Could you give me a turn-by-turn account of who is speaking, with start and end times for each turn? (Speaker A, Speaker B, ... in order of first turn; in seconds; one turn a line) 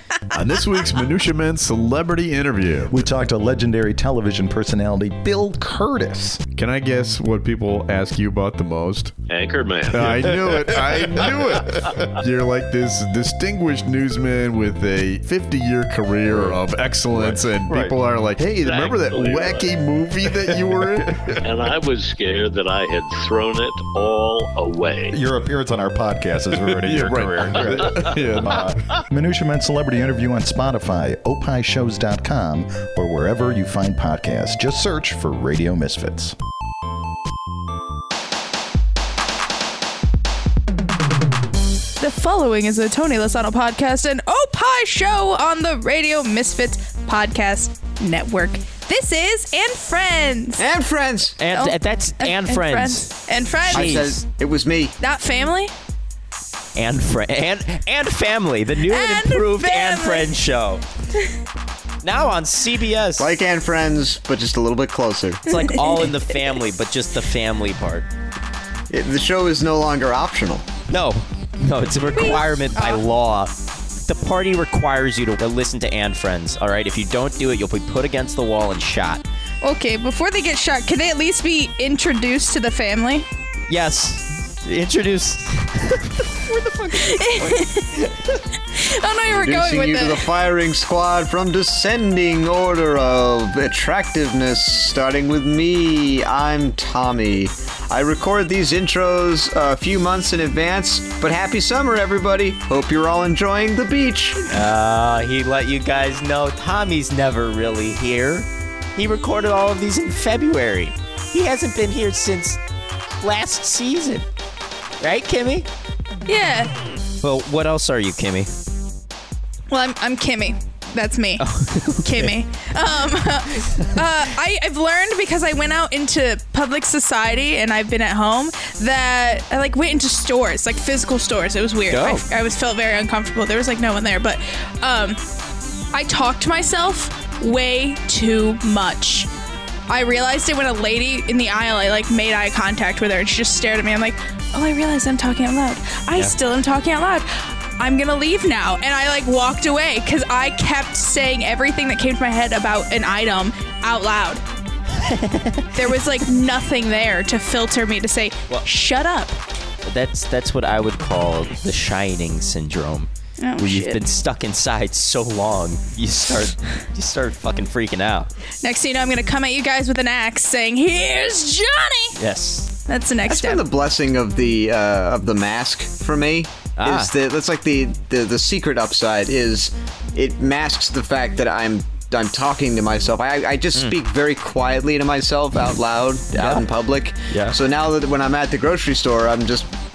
Speaker A: 0.3-3.0
Speaker B: 2.9-6.4
Speaker A: 6.5-9.2
Speaker C: 9.3-10.2
Speaker A: 9.9-21.4
Speaker C: 18.5-19.7
Speaker C: 21.4-25.2
Speaker B: 25.1-36.4
Speaker A: 26.6-28.6
Speaker C: 27.5-28.4
Speaker D: 42.0-50.6
Speaker E: 50.6-51.4
Speaker F: 51.4-54.2
Speaker D: 51.5-54.1
Speaker E: 53.7-54.9
Speaker D: 55.0-55.7
Speaker F: 56.8-60.8
Speaker D: 58.8-60.3
Speaker F: 62.0-63.3
Speaker E: 63.2-65.4
Speaker F: 65.5-68.1
Speaker D: 65.5-66.1
Speaker E: 68.9-70.6
Speaker F: 70.9-79.2
Speaker D: 72.1-73.0
Speaker D: 79.6-83.2
Speaker F: 83.7-88.1
Speaker D: 86.5-88.0
Speaker D: 88.7-90.3
Speaker E: 89.3-104.5
Speaker F: 104.5-112.6
Speaker F: 113.2-114.2
Speaker F: 115.0-115.7
Speaker D: 116.3-116.7
Speaker F: 117.2-118.5
Speaker D: 119.7-121.4
Speaker F: 121.4-122.3
Speaker D: 122.0-135.2
Speaker F: 131.9-132.2
Speaker D: 135.9-139.3
Speaker D: 139.9-154.4
Speaker F: 155.0-155.8
Speaker D: 155.7-159.3
Speaker F: 159.8-168.3
Speaker D: 163.4-164.0
Speaker D: 168.6-172.2
Speaker F: 172.2-172.7
Speaker D: 172.9-173.6
Speaker E: 173.3-189.7
Speaker F: 176.8-177.1
Speaker F: 186.3-186.6
Speaker F: 187.3-187.5